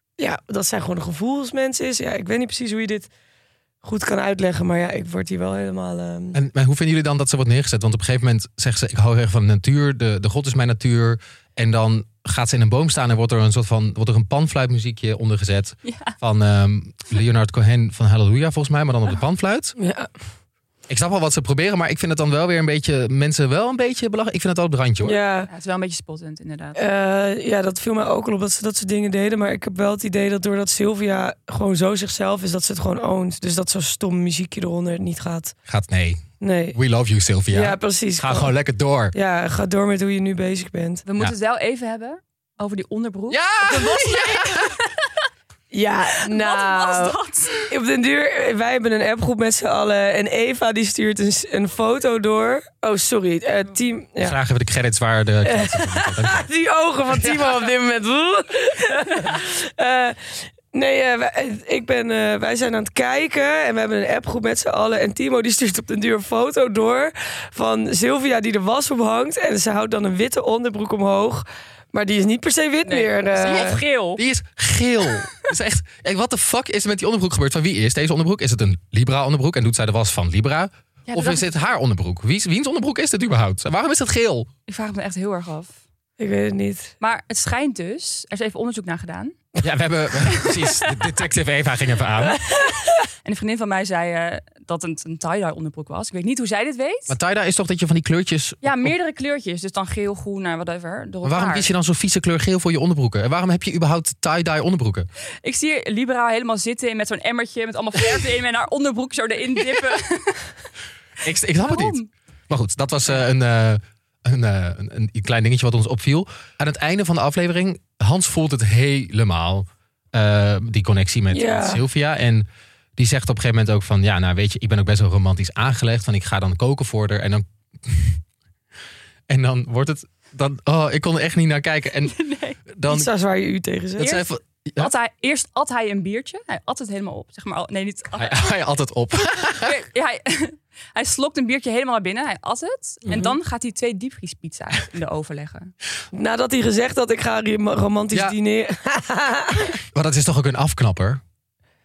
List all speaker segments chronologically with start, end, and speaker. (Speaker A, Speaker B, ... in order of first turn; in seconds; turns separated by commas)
Speaker A: 0.2-3.1, Speaker A: 3.8-6.4, Speaker B: 6.3-19.8, Speaker C: 15.8-16.1, Speaker A: 19.8-20.1, Speaker B: 20.9-25.2, Speaker A: 25.0-25.5, Speaker C: 25.5-26.9, Speaker A: 26.8-35.5, Speaker B: 35.7-36.2, Speaker A: 36.4-36.8, Speaker B: 36.7-39.1, Speaker A: 37.5-38.5, Speaker A: 39.1-41.0, Speaker C: 41.0-44.9, Speaker B: 43.3-44.8, Speaker A: 45.7-54.4, Speaker C: 46.2-47.7, Speaker B: 54.2-56.5, Speaker A: 55.4-73.8, Speaker B: 57.1-57.5, Speaker C: 72.9-74.2, Speaker B: 73.5-84.5, Speaker C: 81.1-81.7, Speaker C: 84.7-85.7, Speaker A: 86.2-86.9, Speaker C: 87.0-89.4, Speaker B: 89.6-92.4, Speaker C: 90.2-91.1, Speaker C: 93.2-97.2, Speaker B: 97.1-98.9, Speaker C: 98.6-101.7, Speaker B: 101.2-105.1, Speaker C: 105.4-110.5, Speaker B: 111.2-112.0, Speaker C: 111.6-112.1, Speaker B: 112.5-128.2, Speaker A: 121.3-121.8, Speaker B: 129.3-132.2, Speaker C: 132.0-132.6, Speaker B: 132.7-133.1, Speaker A: 132.9-134.2, Speaker B: 134.0-134.9, Speaker C: 134.0-134.3, Speaker C: 134.8-138.5, Speaker B: 138.1-139.8, Speaker C: 139.6-145.7, Speaker B: 143.1-143.3, Speaker A: 146.1-149.8, Speaker B: 149.9-151.2